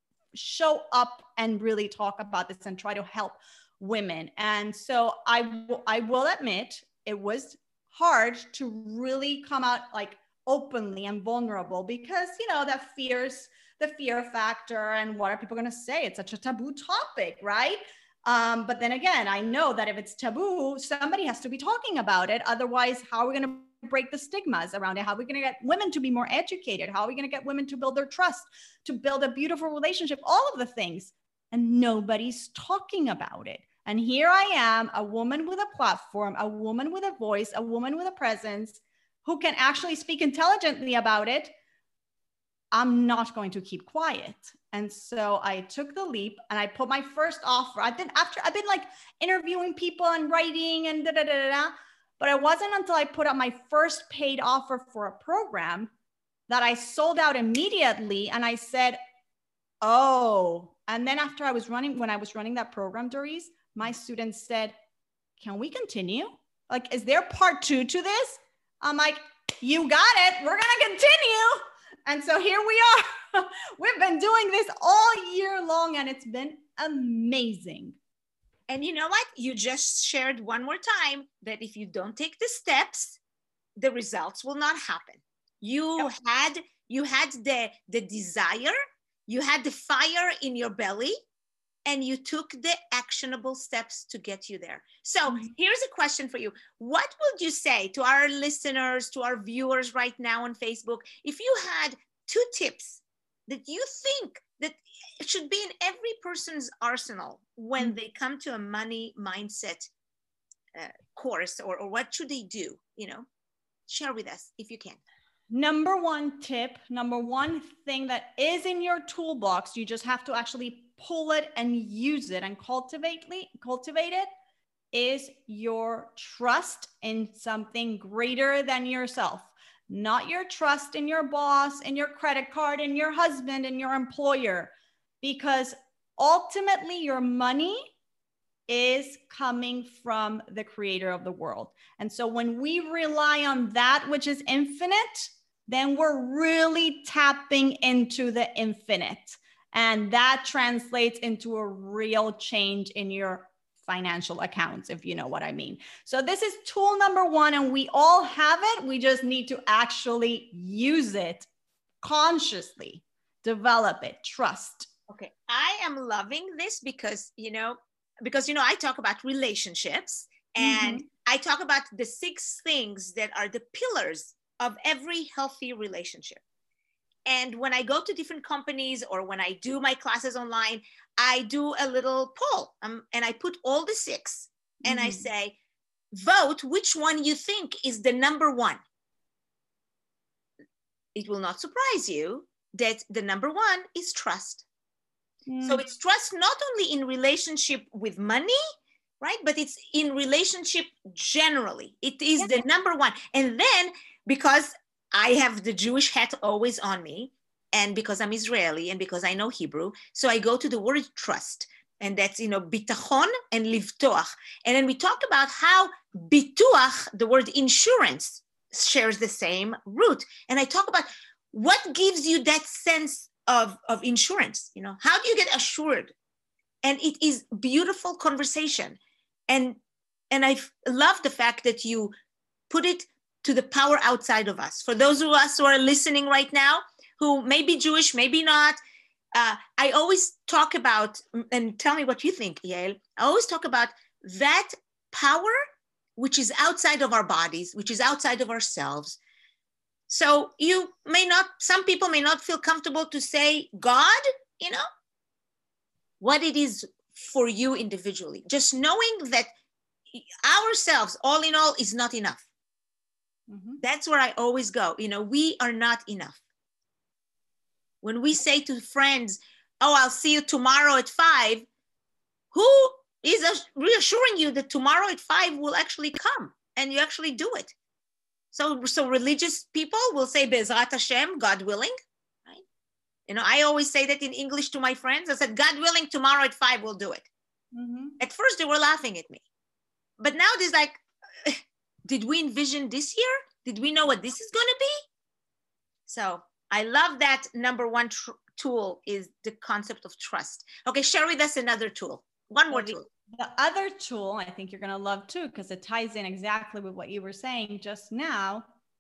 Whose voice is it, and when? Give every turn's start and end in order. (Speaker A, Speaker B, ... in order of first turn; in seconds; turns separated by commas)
Speaker A: 0.3-41.5, Speaker A: 42.7-55.9, Speaker A: 56.5-59.0, Speaker A: 59.8-64.7, Speaker A: 65.4-77.9, Speaker B: 78.7-83.2, Speaker B: 83.8-88.7, Speaker B: 89.3-91.2, Speaker B: 91.8-109.9, Speaker B: 110.7-113.2, Speaker B: 113.9-115.0, Speaker A: 115.5-124.3, Speaker A: 124.9-137.9, Speaker A: 138.7-161.4, Speaker A: 162.0-164.9, Speaker B: 165.1-176.4, Speaker A: 170.6-171.0, Speaker B: 177.2-185.5, Speaker A: 184.8-185.3, Speaker B: 186.1-188.8, Speaker B: 191.1-194.6, Speaker A: 195.5-195.8, Speaker B: 195.6-198.6, Speaker B: 199.2-226.1, Speaker B: 226.8-229.0, Speaker B: 229.5-229.8, Speaker B: 230.3-232.1, Speaker B: 232.7-238.8, Speaker B: 239.3-245.6, Speaker B: 246.2-249.2, Speaker B: 250.1-254.8, Speaker B: 256.2-259.5, Speaker B: 260.1-262.4, Speaker A: 263.5-263.8, Speaker B: 263.8-266.4, Speaker B: 268.0-271.6, Speaker B: 272.5-277.7, Speaker B: 278.5-281.9, Speaker B: 283.3-287.2, Speaker A: 287.7-288.2, Speaker B: 288.2-289.4, Speaker B: 290.2-295.0, Speaker B: 296.1-303.1, Speaker A: 302.7-308.6